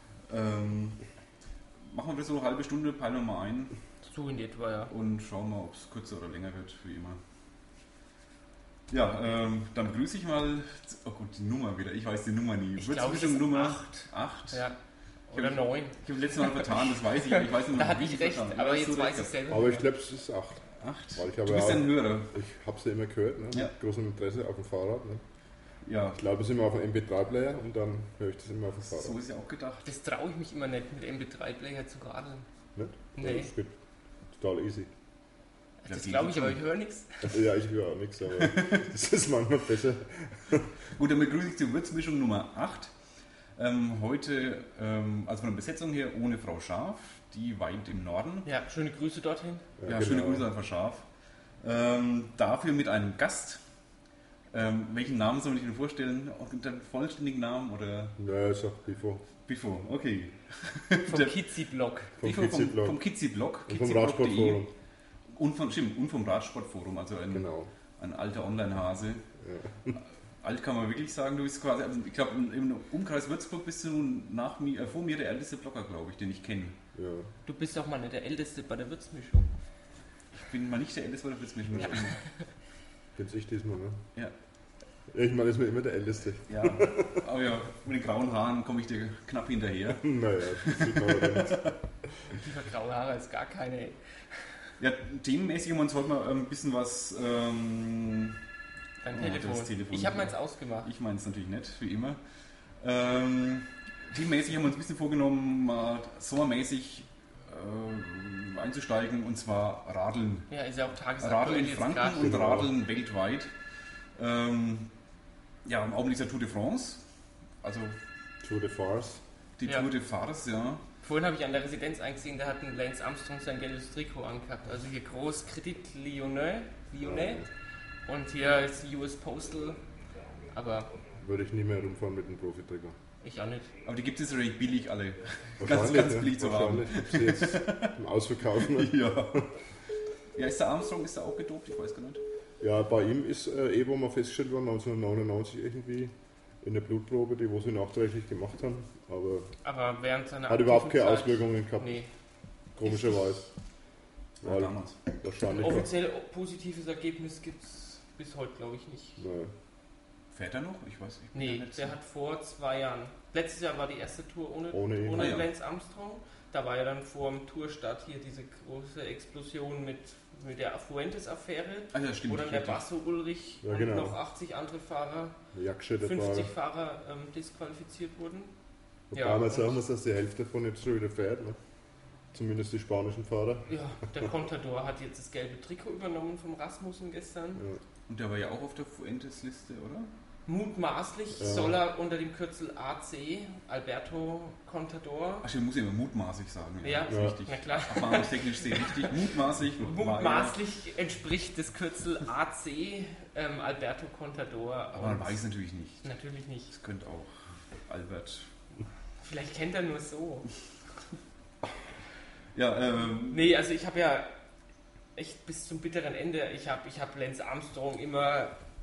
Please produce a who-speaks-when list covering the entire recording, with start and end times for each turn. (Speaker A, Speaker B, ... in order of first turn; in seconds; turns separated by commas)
Speaker A: 0.3-1.0, Speaker A: 1.9-3.7, Speaker B: 4.0-4.9, Speaker A: 4.9-7.2, Speaker A: 8.9-14.6, Speaker B: 12.8-14.7, Speaker B: 15.3-19.8, Speaker A: 15.3-19.4, Speaker C: 19.5-25.2, Speaker A: 20.8-22.3, Speaker A: 25.8-26.2, Speaker C: 26.1-29.2, Speaker A: 28.8-29.9, Speaker B: 29.8-32.5, Speaker C: 32.7-33.8, Speaker B: 33.1-33.5, Speaker C: 34.3-34.9, Speaker B: 35.8-37.4, Speaker A: 35.9-36.6, Speaker C: 37.2-40.7, Speaker A: 38.3-38.8, Speaker A: 40.9-42.9, Speaker A: 43.5-48.5, Speaker B: 48.4-49.6, Speaker C: 49.8-50.5, Speaker A: 49.9-51.0, Speaker A: 51.6-53.6, Speaker A: 54.5-58.2, Speaker C: 58.2-59.2, Speaker A: 59.4-61.4, Speaker B: 61.0-62.1, Speaker C: 62.2-63.0, Speaker A: 62.2-64.6, Speaker C: 63.7-64.7, Speaker A: 65.3-67.5, Speaker C: 67.3-67.7, Speaker A: 68.0-69.2, Speaker C: 69.4-70.0, Speaker A: 70.4-76.8, Speaker C: 76.9-77.3, Speaker B: 77.5-79.5, Speaker A: 80.4-82.2, Speaker C: 81.7-82.1, Speaker C: 83.2-84.0, Speaker C: 85.1-87.2, Speaker A: 86.5-91.8, Speaker C: 89.9-91.6, Speaker B: 92.3-94.0, Speaker A: 94.8-98.3, Speaker B: 99.0-100.9, Speaker A: 99.1-102.2, Speaker A: 102.8-110.5, Speaker B: 110.5-112.3, Speaker A: 111.2-113.5, Speaker C: 112.2-112.7, Speaker A: 114.2-114.9, Speaker A: 115.6-117.0, Speaker A: 117.6-118.0, Speaker C: 118.4-119.2, Speaker A: 119.6-120.8, Speaker B: 121.0-127.4, Speaker C: 127.0-127.4, Speaker B: 128.1-129.8, Speaker B: 130.5-130.9, Speaker C: 131.2-132.9, Speaker B: 133.2-133.7, Speaker A: 133.8-137.9, Speaker C: 135.6-139.4, Speaker A: 138.6-139.4, Speaker A: 140.3-142.2, Speaker C: 142.6-149.5, Speaker B: 149.6-152.1, Speaker C: 150.5-151.9, Speaker C: 152.8-153.5, Speaker A: 154.4-155.0, Speaker C: 154.4-155.9, Speaker B: 155.6-159.2, Speaker C: 159.2-159.5, Speaker A: 160.3-161.9, Speaker B: 161.3-175.4, Speaker C: 164.7-165.3, Speaker A: 165.2-165.5, Speaker A: 171.9-172.8, Speaker C: 173.6-174.2, Speaker C: 175.5-176.5, Speaker B: 176.0-178.5, Speaker C: 179.1-181.6, Speaker B: 179.1-179.8, Speaker C: 182.3-183.7, Speaker B: 183.7-187.6, Speaker C: 187.6-187.8, Speaker A: 188.1-190.1, Speaker B: 190.5-195.4, Speaker C: 191.4-191.8, Speaker A: 195.4-200.6, Speaker B: 196.8-199.1, Speaker C: 197.1-197.4, Speaker B: 199.8-205.4, Speaker A: 204.9-206.0, Speaker B: 206.0-206.7, Speaker A: 206.7-208.5, Speaker B: 209.2-210.5, Speaker A: 212.5-213.5, Speaker B: 213.3-214.3, Speaker B: 215.1-218.5